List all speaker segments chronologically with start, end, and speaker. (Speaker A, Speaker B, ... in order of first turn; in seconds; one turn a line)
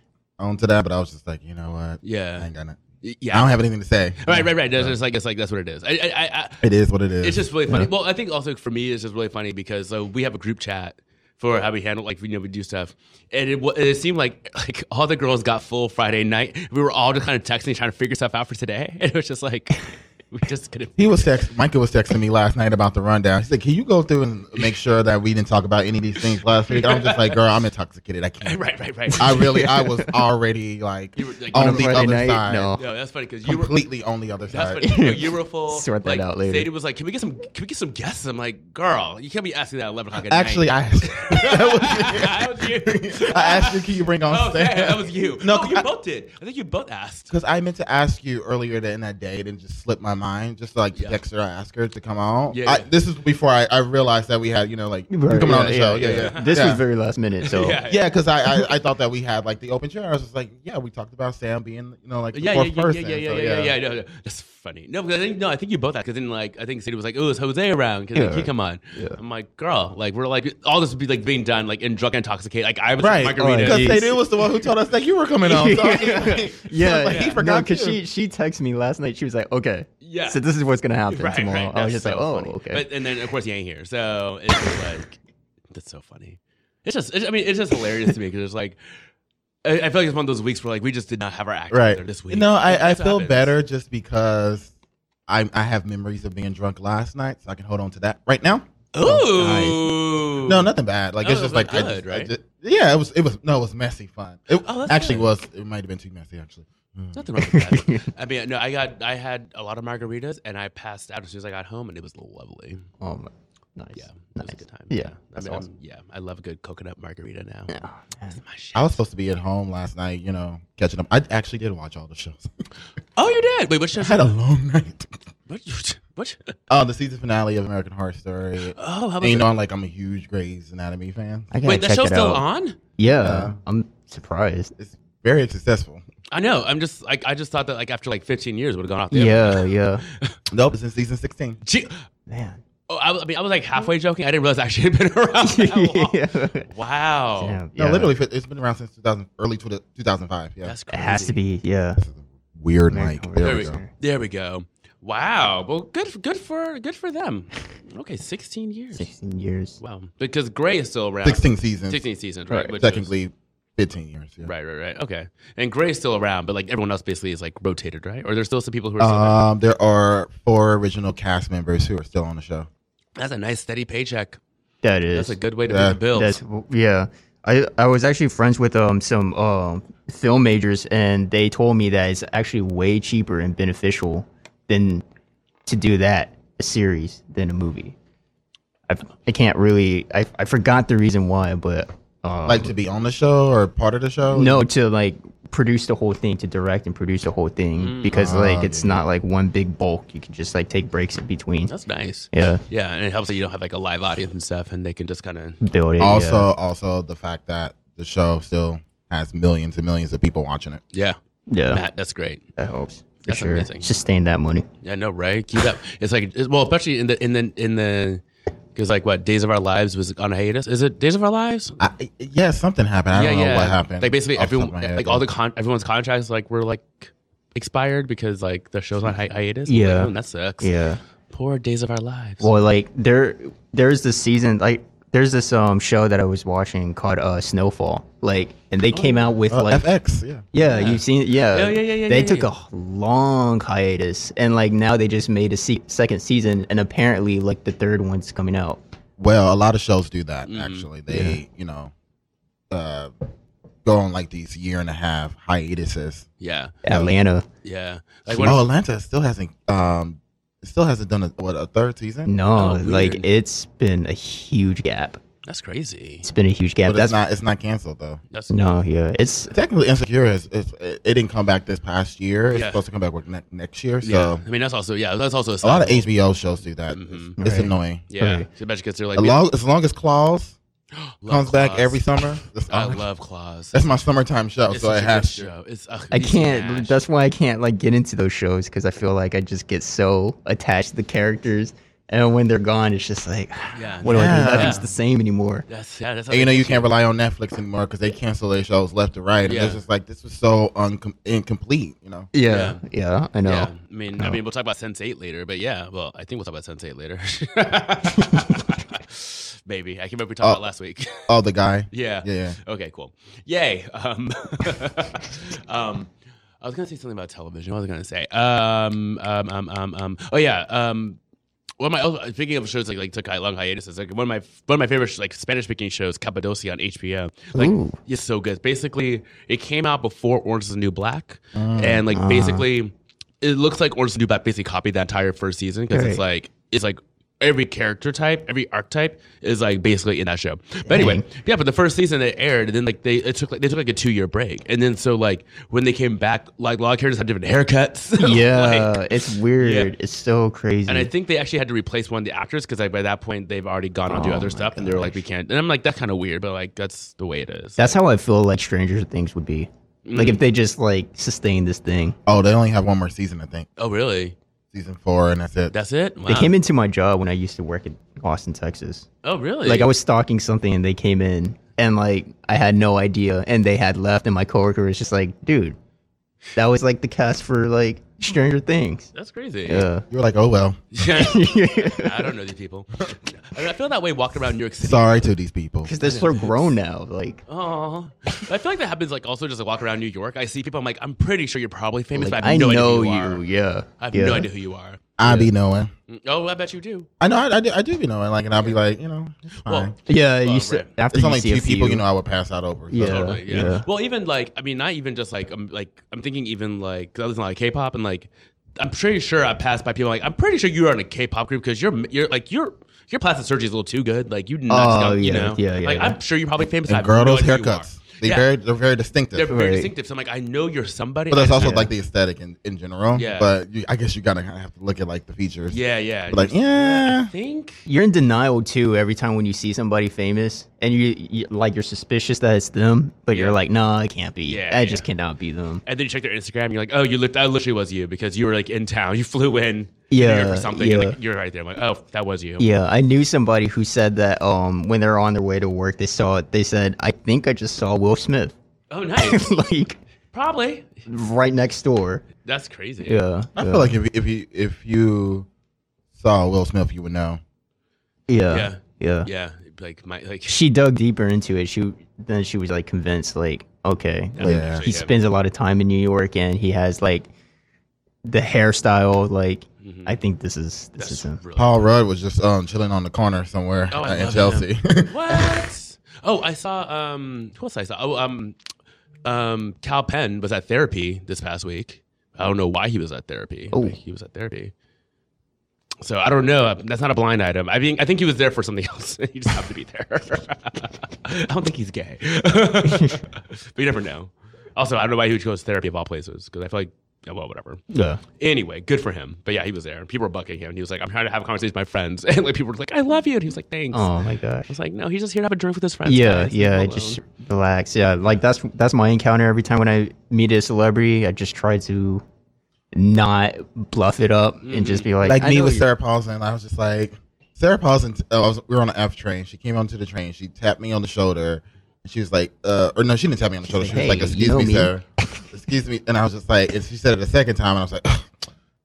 Speaker A: 0.4-5.0
Speaker B: 2.0-2.5
Speaker B: 3.0-3.6
Speaker B: 4.2-6.6
Speaker A: 6.6-7.9
Speaker B: 7.2-21.3
Speaker A: 21.0-28.6
Speaker B: 26.7-27.4
Speaker B: 28.4-29.6
Speaker A: 29.1-32.7
Speaker C: 29.2-30.1
Speaker B: 31.1-33.7
Speaker C: 31.5-32.8
Speaker A: 33.5-34.9
Speaker B: 34.5-47.3
Speaker C: 34.8-36.7
Speaker A: 40.2-45.8
Speaker A: 47.3-56.8
Speaker B: 50.9-51.2
Speaker B: 52.5-52.9
Speaker C: 55.1-57.8
Speaker B: 56.0-56.7
Speaker B: 57.4-58.1
Speaker A: 57.8-63.7
Speaker B: 62.3-74.1
Speaker C: 68.1-69.2
Speaker A: 73.0-78.0
Speaker C: 73.4-74.2
Speaker C: 75.4-82.9
Speaker B: 77.0-77.4
Speaker B: 80.0-80.4
Speaker B: 81.1-85.2
Speaker B: 85.7-88.8
Speaker B: 89.6-93.5
Speaker A: 91.7-94.7
Speaker A: 95.3-99.8
Speaker B: 98.9-102.3
Speaker C: 99.0-99.8
Speaker A: 100.4-107.3
Speaker B: 104.6-105.3
Speaker B: 107.1-112.8
Speaker C: 107.4-108.0
Speaker C: 113.0-115.7
Speaker B: 114.0-117.7
Speaker C: 117.7-118.3
Speaker B: 118.3-118.8
Speaker A: 118.7-122.5
Speaker B: 123.2-124.3
Speaker A: 123.9-125.1
Speaker B: 125.5-126.5
Speaker A: 126.7-131.5
Speaker B: 128.8-129.5
Speaker C: 131.5-132.4
Speaker B: 131.6-132.8
Speaker C: 133.0-134.7
Speaker A: 133.2-133.6
Speaker A: 134.8-136.0
Speaker B: 136.3-139.7
Speaker C: 139.1-140.0
Speaker A: 140.5-141.6
Speaker B: 141.6-141.9
Speaker C: 142.3-142.6
Speaker B: 142.9-146.2
Speaker C: 145.4-146.7
Speaker B: 146.7-147.6
Speaker C: 147.4-148.1
Speaker A: 147.8-150.7
Speaker B: 150.6-151.4
Speaker C: 150.9-152.0
Speaker A: 152.0-153.8
Speaker C: 152.9-153.9
Speaker B: 153.4-159.1
Speaker C: 158.9-159.8
Speaker B: 159.8-163.1
Speaker A: 161.2-162.0
Speaker A: 162.7-164.5
Speaker B: 164.4-169.4
Speaker A: 169.0-172.7
Speaker B: 173.2-174.4
Speaker C: 174.8-175.4
Speaker B: 175.1-176.4
Speaker A: 175.7-176.0
Speaker C: 176.1-185.0
Speaker C: 185.7-187.9
Speaker C: 188.9-192.7
Speaker A: 192.4-194.6
Speaker C: 194.3-201.7
Speaker B: 197.8-198.2
Speaker A: 198.1-199.0
Speaker B: 201.7-205.6
Speaker C: 202.3-202.6
Speaker C: 205.6-206.5
Speaker A: 206.0-210.8
Speaker C: 211.5-211.8
Speaker B: 211.7-212.4
Speaker C: 212.6-214.7
Speaker B: 213.2-213.9
Speaker B: 214.8-218.2
Speaker B: 218.7-221.8
Speaker A: 221.8-225.2
Speaker B: 223.1-230.7
Speaker C: 229.7-231.0
Speaker B: 231.3-232.5
Speaker C: 232.4-239.9
Speaker B: 238.9-239.3
Speaker A: 239.5-240.4
Speaker C: 240.5-248.8
Speaker B: 240.6-242.5
Speaker A: 249.2-251.9
Speaker B: 250.4-250.9
Speaker C: 251.1-251.4
Speaker A: 252.7-253.1
Speaker A: 253.8-256.2
Speaker B: 256.4-256.8
Speaker C: 256.8-257.4
Speaker A: 256.9-257.1
Speaker B: 257.6-258.6
Speaker A: 258.3-262.3
Speaker C: 262.2-265.2
Speaker B: 262.5-263.2
Speaker B: 265.4-266.2
Speaker C: 266.2-267.2
Speaker A: 266.9-268.2
Speaker B: 268.3-268.7
Speaker C: 268.5-269.5
Speaker A: 269.5-274.4
Speaker B: 272.5-272.8
Speaker B: 274.0-276.1
Speaker A: 275.6-278.0
Speaker B: 276.9-277.4
Speaker C: 277.4-278.5
Speaker B: 278.1-279.4
Speaker A: 279.1-280.6
Speaker B: 280.9-282.0
Speaker A: 281.3-283.0
Speaker B: 282.7-283.8
Speaker A: 283.7-285.5
Speaker B: 284.7-287.0
Speaker C: 286.1-295.6
Speaker B: 293.7-294.9
Speaker A: 294.1-294.8
Speaker B: 295.7-296.9
Speaker A: 296.3-302.3
Speaker B: 299.4-299.8
Speaker C: 302.3-304.4
Speaker B: 302.5-302.8
Speaker B: 303.4-311.3
Speaker A: 311.3-312.6
Speaker B: 311.9-316.1
Speaker B: 316.6-321.2
Speaker B: 321.8-349.0
Speaker C: 327.5-327.9
Speaker A: 331.6-332.0
Speaker C: 332.1-332.7
Speaker C: 335.9-336.2
Speaker C: 340.8-341.2
Speaker C: 348.2-351.1
Speaker B: 349.6-349.9
Speaker B: 350.9-357.8
Speaker C: 354.1-355.2
Speaker C: 357.8-362.2
Speaker B: 360.1-360.4
Speaker A: 362.2-363.7
Speaker B: 363.8-364.4
Speaker A: 364.7-365.7
Speaker B: 365.7-366.5
Speaker C: 366.2-369.1
Speaker B: 369.2-369.9
Speaker C: 369.6-375.8
Speaker C: 376.6-379.1
Speaker B: 379.1-379.9
Speaker C: 379.6-380.0
Speaker A: 380.1-380.8
Speaker B: 380.9-385.2
Speaker C: 381.1-382.3
Speaker A: 384.8-385.9
Speaker C: 385.8-387.4
Speaker B: 386.0-386.4
Speaker B: 387.5-393.4
Speaker C: 392.1-394.5
Speaker B: 394.0-395.0
Speaker A: 395.2-395.9
Speaker C: 395.2-395.5
Speaker B: 396.1-397.1
Speaker A: 397.2-399.9
Speaker B: 399.7-400.9
Speaker C: 400.1-402.0
Speaker A: 401.1-403.7
Speaker C: 402.9-403.9
Speaker B: 403.0-418.5
Speaker C: 414.7-416.2
Speaker A: 416.9-419.5
Speaker B: 419.3-421.9
Speaker C: 419.5-419.9
Speaker A: 421.3-427.3
Speaker C: 421.6-421.9
Speaker B: 423.1-423.5
Speaker B: 425.7-427.8
Speaker C: 427.9-435.8
Speaker B: 433.3-433.6
Speaker B: 434.4-435.0
Speaker B: 435.9-442.7
Speaker C: 440.1-441.2
Speaker C: 442.6-448.6
Speaker B: 448.9-449.6
Speaker C: 449.2-450.0
Speaker B: 450.3-450.9
Speaker C: 451.1-452.2
Speaker B: 452.4-453.2
Speaker C: 453.0-453.9
Speaker A: 453.6-455.5
Speaker A: 456.1-457.4
Speaker C: 458.3-459.3
Speaker B: 458.5-460.6
Speaker C: 460.4-467.3
Speaker B: 464.4-465.1
Speaker A: 464.4-464.9
Speaker C: 468.2-471.4
Speaker B: 469.8-470.2
Speaker B: 471.0-471.8
Speaker A: 471.6-475.6
Speaker B: 473.9-478.6
Speaker B: 479.2-484.7
Speaker B: 486.0-497.8
Speaker C: 492.9-493.2
Speaker C: 497.9-498.2
Speaker B: 498.4-504.1
Speaker C: 503.9-504.7
Speaker B: 504.7-507.2
Speaker C: 506.1-512.2
Speaker C: 512.9-515.9
Speaker B: 514.6-515.1
Speaker A: 515.2-528.3
Speaker C: 523.6-524.9